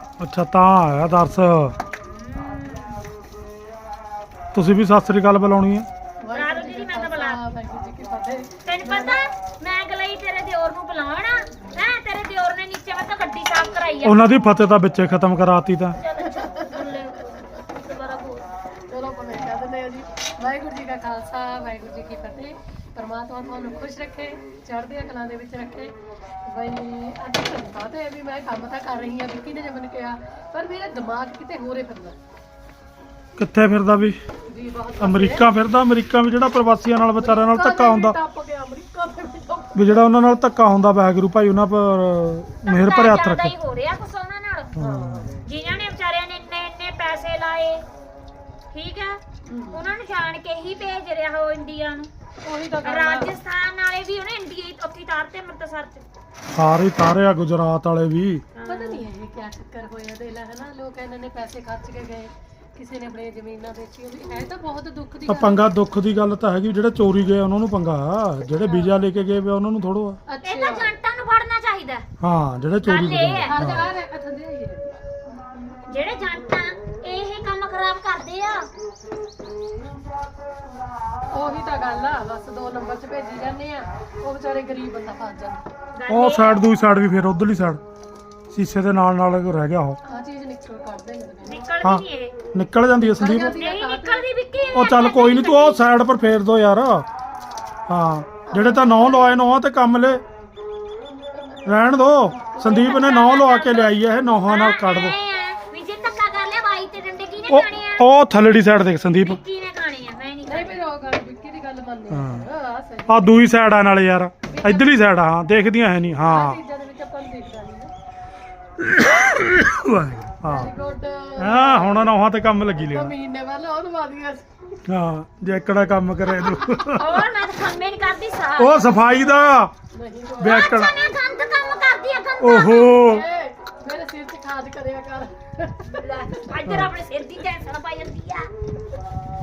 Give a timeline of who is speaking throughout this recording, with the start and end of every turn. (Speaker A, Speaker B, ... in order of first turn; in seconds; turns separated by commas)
Speaker A: 0.2-1.8, Speaker B: 2.0-3.0, Speaker A: 4.5-5.9, Speaker C: 6.2-9.2, Speaker B: 6.3-7.4, Speaker B: 8.7-14.3, Speaker A: 14.0-16.0, Speaker B: 16.0-18.5, Speaker C: 16.2-17.0, Speaker C: 18.9-25.9, Speaker C: 26.5-32.2, Speaker A: 33.4-34.2, Speaker C: 34.5-35.5, Speaker A: 35.0-38.2, Speaker C: 37.2-40.0, Speaker A: 39.8-43.5, Speaker B: 42.6-44.7, Speaker A: 44.8-45.4, Speaker C: 44.8-45.3, Speaker B: 45.4-47.9, Speaker B: 48.7-52.1, Speaker C: 49.5-49.8, Speaker C: 52.4-53.3, Speaker B: 52.8-56.0, Speaker A: 56.5-58.4, Speaker B: 58.5-59.0, Speaker C: 58.7-65.7, Speaker A: 65.3-70.2, Speaker C: 68.5-69.0, Speaker C: 70.3-71.0, Speaker B: 70.4-72.0, Speaker A: 72.2-73.9, Speaker B: 72.9-73.6, Speaker C: 73.5-74.9, Speaker B: 75.9-78.7, Speaker C: 81.3-85.6, Speaker B: 86.0-86.7, Speaker A: 86.1-87.8, Speaker A: 88.5-90.0, Speaker C: 90.0-91.7, Speaker B: 91.5-92.3, Speaker A: 91.8-93.6, Speaker C: 93.0-94.3, Speaker B: 93.2-95.9, Speaker A: 94.8-97.1, Speaker A: 97.9-100.2, Speaker C: 98.5-99.3, Speaker A: 101.7-105.2, Speaker C: 102.6-102.8, Speaker B: 102.6-108.0, Speaker A: 107.5-109.4, Speaker B: 109.2-110.8, Speaker C: 110.5-113.4, Speaker A: 112.1-112.5, Speaker A: 113.1-116.6, Speaker C: 114.5-114.9, Speaker C: 116.3-117.9, Speaker A: 118.8-120.7, Speaker C: 120.5-122.1, Speaker A: 121.4-123.1, Speaker C: 122.8-124.5, Speaker A: 124.9-127.3, Speaker B: 126.6-129.0, Speaker A: 128.6-129.7, Speaker C: 129.9-130.7, Speaker A: 130.4-131.0, Speaker B: 130.4-133.0, Speaker A: 132.4-133.2, Speaker C: 132.9-136.0, Speaker B: 136.0-138.5, Speaker A: 136.6-136.9